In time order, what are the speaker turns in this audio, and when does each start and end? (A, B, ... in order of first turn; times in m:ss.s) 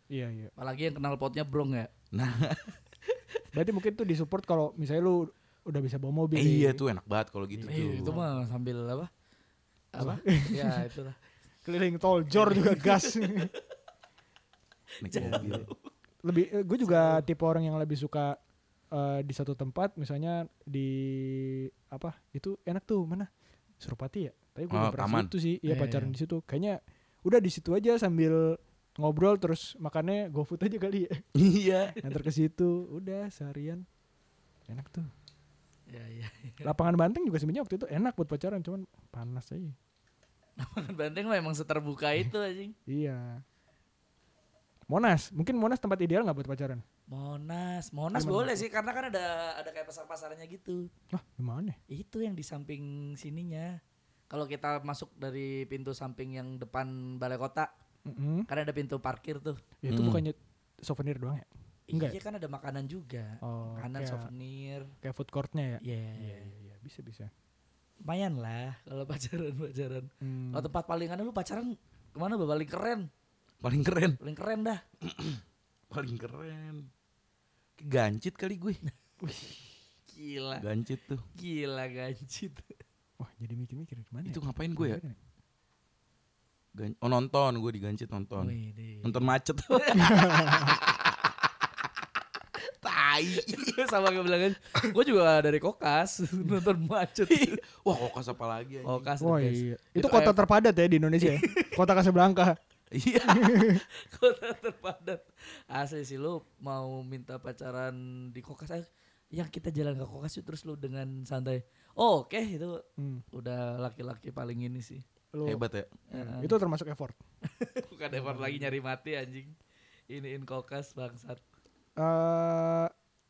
0:00.1-0:00.5 A
0:00.6-0:01.9 B
0:02.1-0:02.7 C
0:03.5-0:06.8 A
0:06.3-0:08.1 C
0:07.6-0:08.4 A
0:07.7-0:09.1 B
0:09.9-0:11.2 B
0:10.0-0:10.8 A
0:11.6-0:13.5 A
0:12.3-0:13.5 B
0:15.0-0:15.7 C
0:15.0-0:15.9 B
0:15.2-0:15.7 A
0:16.2-0:18.4 A
0:16.8-0:17.2 B
0:18.9-0:23.3 A
0:23.8-0:31.2 A
0:24.7-0:25.3 C
0:25.6-0:26.1 B
0:31.3-0:32.0 C
0:32.0-0:33.8 A
0:34.7-0:35.1 A
0:35.9-0:36.7 B
0:36.6-0:39.8 A
0:40.6-0:42.7 B
0:42.9-0:43.4 A
0:44.9-0:46.8 A
0:47.1-0:50.9 B
0:48.1-0:48.6 A
0:51.1-0:51.8 A
0:51.9-0:53.8 B
0:54.3-0:57.7 B
0:58.0-0:58.5 A
0:58.5-0:59.6 B
0:59.8-1:02.2 A
0:59.9-1:00.2 C
1:01.9-1:04.9 B
1:03.4-1:04.3 A
1:05.0-1:07.3 A
1:05.8-1:06.5 B
1:08.0-1:13.1 B
1:10.2-1:10.7 A
1:13.6-1:14.2 C
1:14.2-1:14.8 B
1:15.0-1:16.9 C
1:17.8-1:18.8 C
1:19.2-1:19.7 A
1:20.1-1:20.6 B
1:20.6-1:21.2 C
1:21.3-1:22.7 B
1:23.2-1:25.2 A
1:24.2-1:25.0 C
1:26.7-1:31.1 C
1:28.4-1:30.8 B
1:30.0-1:30.8 A
1:32.7-1:33.8 C
1:33.3-1:37.6 B
1:37.3-1:39.1 C
1:38.8-1:40.4 B
1:39.2-1:42.6 A
1:41.2-1:41.8 B
1:42.9-1:43.6 C
1:43.3-1:43.8 A
1:43.7-1:55.0 B
1:53.0-1:53.2 A
1:55.3-1:55.6 A
1:55.4-1:55.9 C
1:56.1-1:56.5 B
1:56.1-1:57.2 A
1:57.5-1:59.5 B
1:58.1-1:58.7 A
2:00.1-2:01.4 B
2:02.0-2:02.9 A